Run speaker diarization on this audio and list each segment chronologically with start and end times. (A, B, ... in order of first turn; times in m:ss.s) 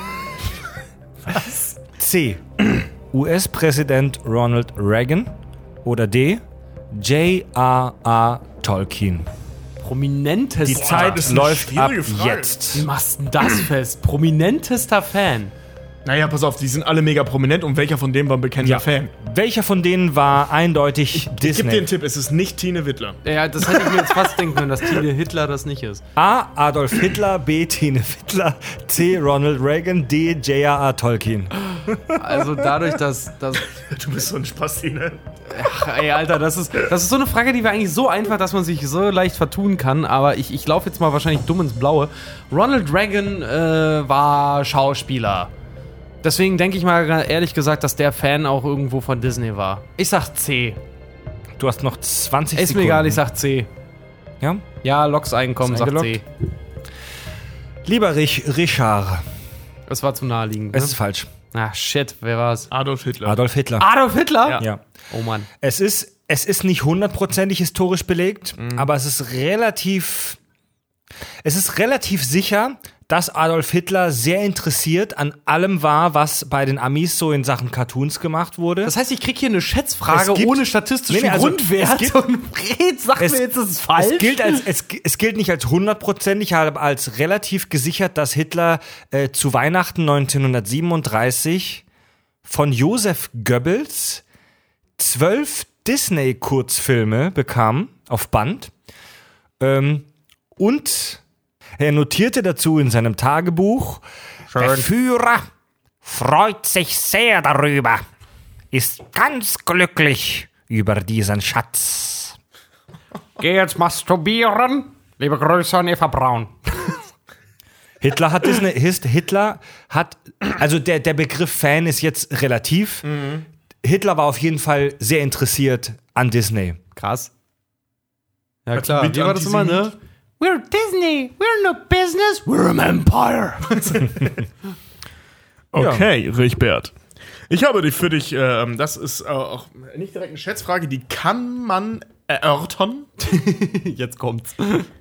0:01.9-0:05.3 A
0:05.8-0:09.3 A
0:09.8-0:11.2 B
0:10.6-0:12.9 A
0:10.7-0:12.7 C
0:12.7-0:15.5 B
0:16.0-0:19.1 C
0:18.6-0:21.9 A
0:21.1-0:25.0 C
0:23.2-0:26.0 B
0:26.2-0:32.0 A
0:32.1-0:33.8 B
0:33.7-0:35.2 C
0:35.5-0:45.5 B
0:46.2-0:50.8 B
0:51.6-0:53.2 A
0:52.6-0:53.7 B
0:54.8-0:56.2 B
0:55.6-0:56.2 A
0:57.8-0:59.2 A
0:59.9-1:01.0 B
1:00.7-1:01.3 A
1:01.5-1:02.7 B
1:02.7-1:03.4 C
1:03.2-1:03.9 A
1:03.8-1:05.5 B
1:05.6-1:10.4 A
1:08.6-1:08.8 C
1:11.4-1:18.9 A
1:18.8-1:24.6 B
1:20.1-1:22.2 A
1:23.2-1:23.4 A
1:24.0-1:31.8 A
1:32.4-1:34.2 A
1:35.0-1:38.7 A
1:39.6-1:41.2 A
1:41.8-1:45.5 A
1:44.5-1:44.9 B
1:46.0-1:48.0 A
1:48.7-1:52.4 A
1:53.4-1:56.9 B
1:58.0-2:03.2 A
2:03.0-2:03.4 C
2:03.8-2:06.8 A
2:07.0-2:07.3 B
2:08.6-2:14.3 B
2:08.7-2:09.9 C
2:13.8-2:14.3 C
2:15.7-2:16.9 C
2:15.8-2:16.1 A
2:17.5-2:23.1 C
2:23.2-2:24.9 B